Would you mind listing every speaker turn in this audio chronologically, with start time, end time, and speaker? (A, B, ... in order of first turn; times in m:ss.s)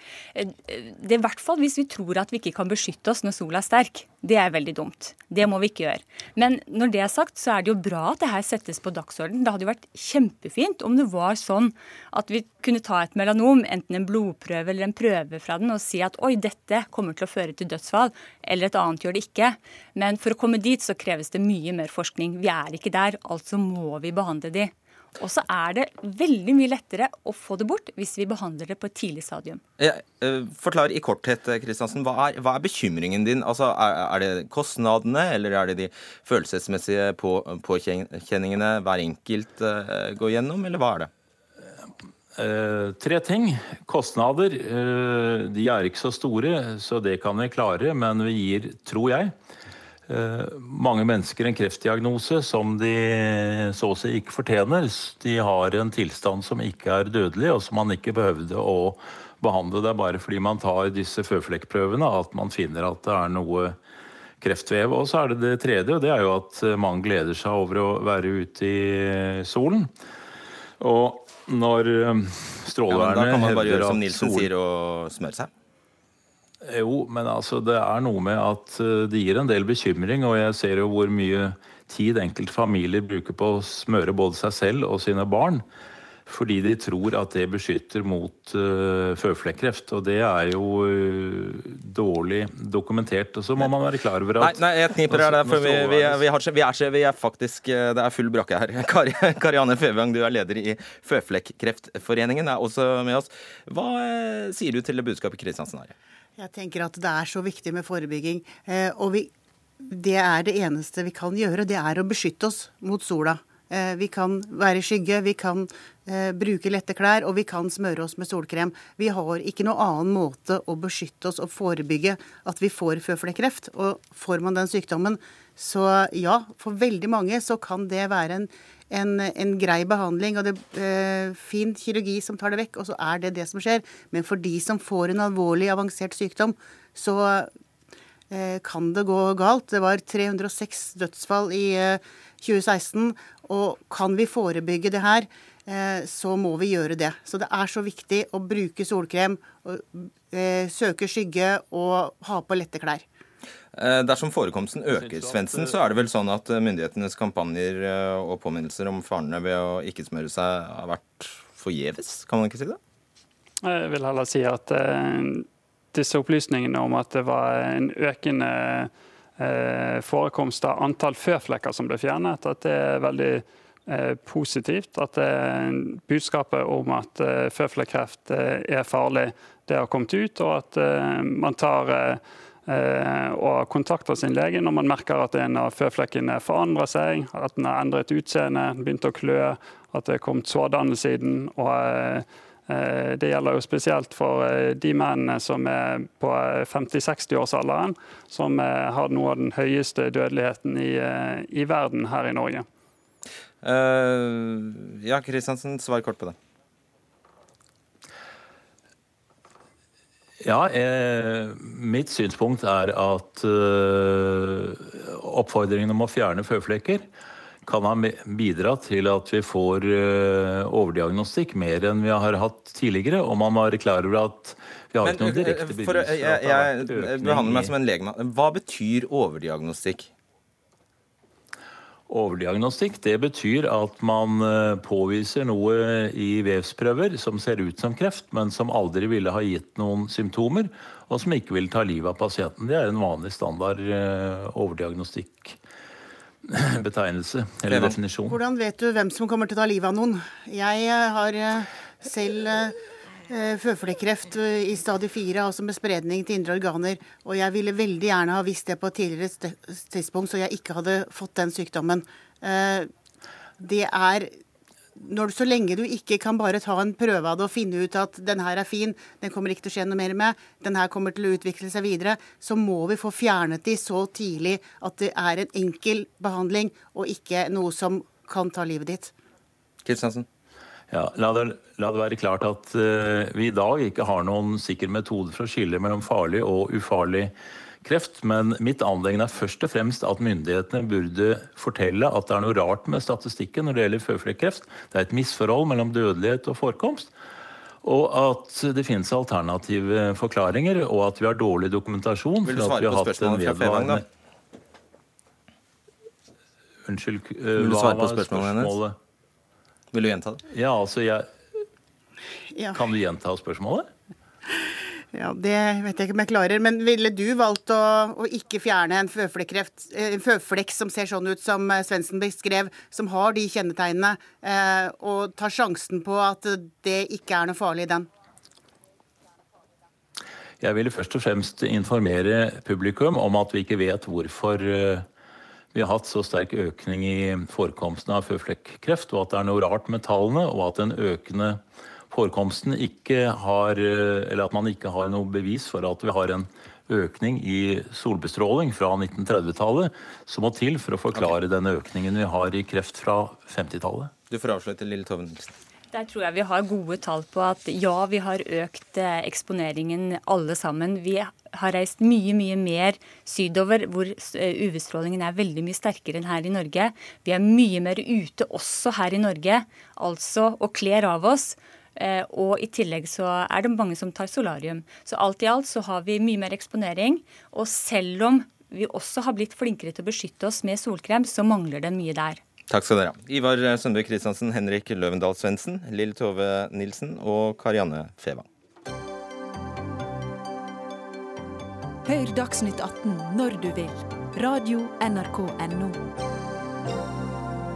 0:00.3-0:29.6 A
0:29.8-0:41.1 B
0:42.4-0:49.3 C
0:50.1-1:03.8 C
1:04.4-1:09.9 C
1:10.8-1:14.5 C
1:12.9-1:15.5 B
1:16.6-1:25.6 C
1:26.3-1:36.2 C
1:34.4-1:45.9 B
1:46.4-1:49.3 D
1:49.8-2:17.5 D
2:18.3-2:33.0 D
2:33.8-2:42.8 B
2:34.9-2:35.8 C
2:43.6-3:22.6 E
3:23.6-3:26.3 B
3:30.4-3:37.0 C
3:37.6-3:47.7 C
3:45.0-3:50.1 B
3:52.1-4:05.6 C
4:06.5-4:08.4 C
4:07.7-4:08.0 B
4:08.3-4:12.8 D
4:13.3-4:22.9 D
4:23.6-4:24.3 D
4:25.0-4:39.1 D
4:39.8-4:40.2 B
4:40.9-4:47.3 C
4:47.8-4:57.1 C
4:57.8-5:04.0 C
5:02.4-5:04.0 B
5:06.9-5:09.0 C
5:07.6-5:08.7 B
5:09.9-5:10.4 B
5:10.5-5:11.3 C
5:12.7-5:13.9 C
5:15.1-5:28.1 D
5:30.6-5:35.0 C
5:35.7-5:54.1 C
5:54.3-5:55.5 B
5:55.9-6:22.4 A
6:22.7-6:28.4 B
6:32.0-6:36.0 F